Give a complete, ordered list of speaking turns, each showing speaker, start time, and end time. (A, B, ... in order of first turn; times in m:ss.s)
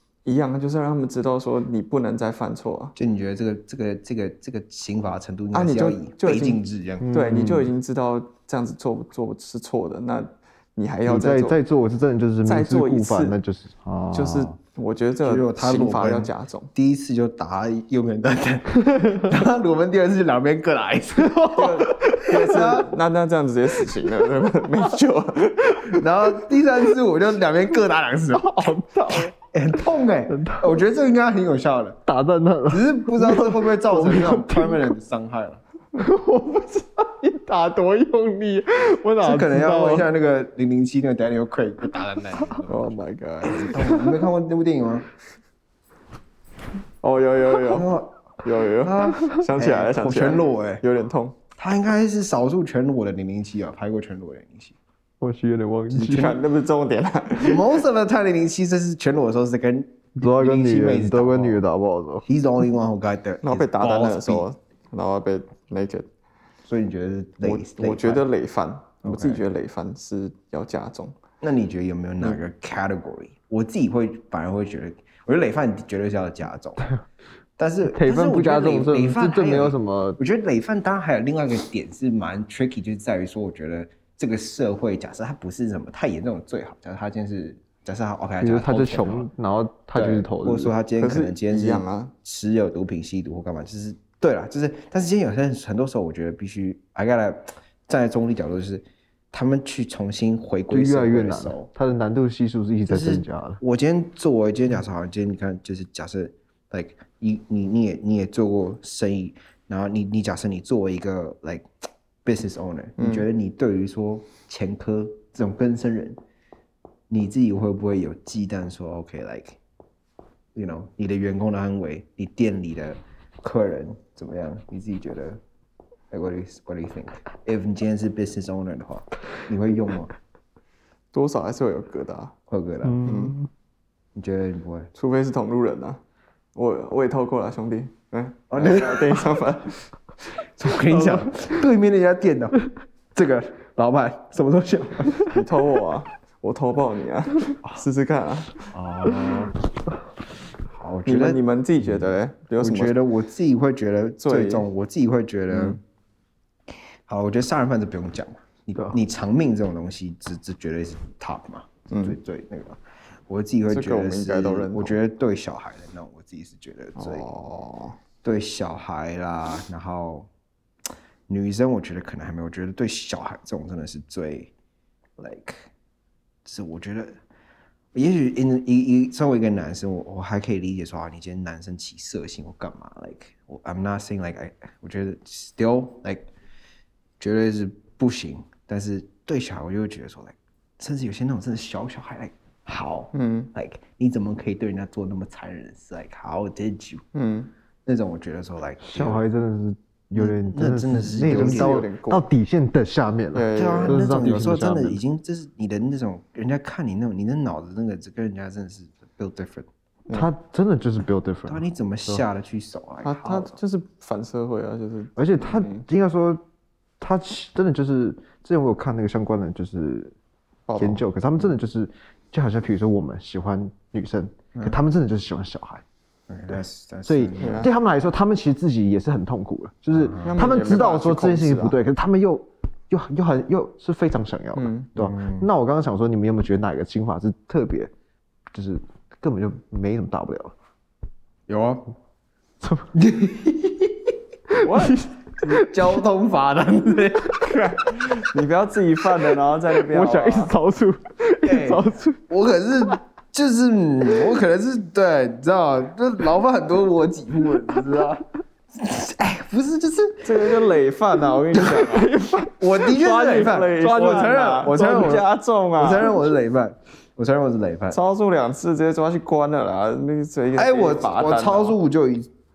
0:00.2-0:02.9 A
0:03.0-0:07.0 B
0:05.5-0:06.6 A
0:07.0-0:07.7 C
0:07.1-0:11.6 A
0:11.1-0:14.5 C
0:12.4-0:13.4 A
0:14.1-0:16.7 A
0:15.2-0:22.9 B
0:21.2-0:22.3 C
0:21.6-0:26.0 A
0:25.9-0:32.0 B
0:28.4-0:29.3 C
0:30.3-0:30.7 C
0:32.1-0:34.9 C
0:32.7-0:35.6 B
0:36.0-0:40.1 C
0:39.2-0:45.1 B
0:42.7-0:43.7 A
0:47.0-0:47.9 A
0:47.6-0:48.1 B
0:48.4-0:51.4 A
0:48.8-0:50.8 B
0:51.6-0:54.8 B
0:55.2-0:56.4 C
0:55.9-0:57.7 A
0:56.0-0:56.4 B
0:57.4-1:01.6 B
1:00.2-1:02.2 C
1:02.3-1:04.5 B
1:03.4-1:06.1 A
1:06.6-1:08.3 B
1:07.4-1:11.2 A
1:09.0-1:09.4 B
1:11.4-1:16.8 B
1:17.6-1:29.3 B
1:17.9-1:20.2 C
1:28.4-1:30.7 C
1:29.9-1:41.7 B
1:31.0-1:32.1 A
1:40.7-1:43.6 C
1:42.9-1:51.7 B
1:52.2-1:56.2 B
1:53.0-1:53.3 A
1:57.1-1:59.6 B
2:00.6-2:05.4 B
2:06.1-2:10.1 B
2:11.1-2:12.3 A
2:12.5-2:13.3 B
2:12.8-2:13.5 C
2:13.0-2:13.4 A
2:14.2-2:14.9 B
2:15.0-2:16.0 A
2:16.6-2:19.8 A
2:18.5-2:19.4 B
2:20.6-2:22.6 B
2:20.9-2:21.6 C
2:23.1-2:25.4 B
2:25.3-2:28.7 A
2:28.7-2:29.5 B
2:30.7-2:35.8 B
2:31.1-2:33.0 A
2:34.2-2:34.7 A
2:35.5-2:35.8 A
2:37.1-2:47.3 B
2:41.9-2:42.2 A
2:43.7-2:45.0 A
2:47.0-2:48.0 A
2:48.2-2:50.3 B
2:51.3-2:54.5 B
2:55.2-2:55.7 B
2:56.4-2:57.2 B
2:57.9-3:06.3 B
3:07.2-3:17.0 B
3:13.1-3:13.5 A
3:17.1-3:17.5 A
3:17.9-3:19.2 B
3:18.8-3:25.0 C
3:20.2-3:21.9 B
3:21.2-3:22.3 A
3:23.3-3:24.1 A
3:23.6-3:29.7 B
3:30.1-3:32.2 C
3:31.5-3:33.6 B
3:33.0-3:35.8 A
3:35.2-3:36.4 C
3:37.0-3:40.1 C
3:40.7-3:41.0 A
3:40.8-3:45.8 C
3:46.3-3:47.7 B
3:47.1-3:57.9 C
3:47.4-3:47.7 A
3:49.9-3:50.4 B
3:50.2-3:51.8 A
3:54.6-3:54.9 A
3:55.0-3:55.5 B
3:58.5-4:00.5 C
4:01.5-4:01.9 B
4:02.6-4:02.9 C
4:02.9-4:04.1 B
4:04.5-4:05.7 C
4:04.6-4:05.0 A
4:05.5-4:07.6 B
4:07.4-4:10.5 A
4:09.8-4:12.2 C
4:11.4-4:20.6 B
4:20.2-4:22.1 A
4:21.6-4:21.8 B
4:21.8-4:22.8 C
4:22.6-4:28.0 B
4:22.8-4:26.2 A
4:27.9-4:31.8 A
4:30.5-4:32.3 B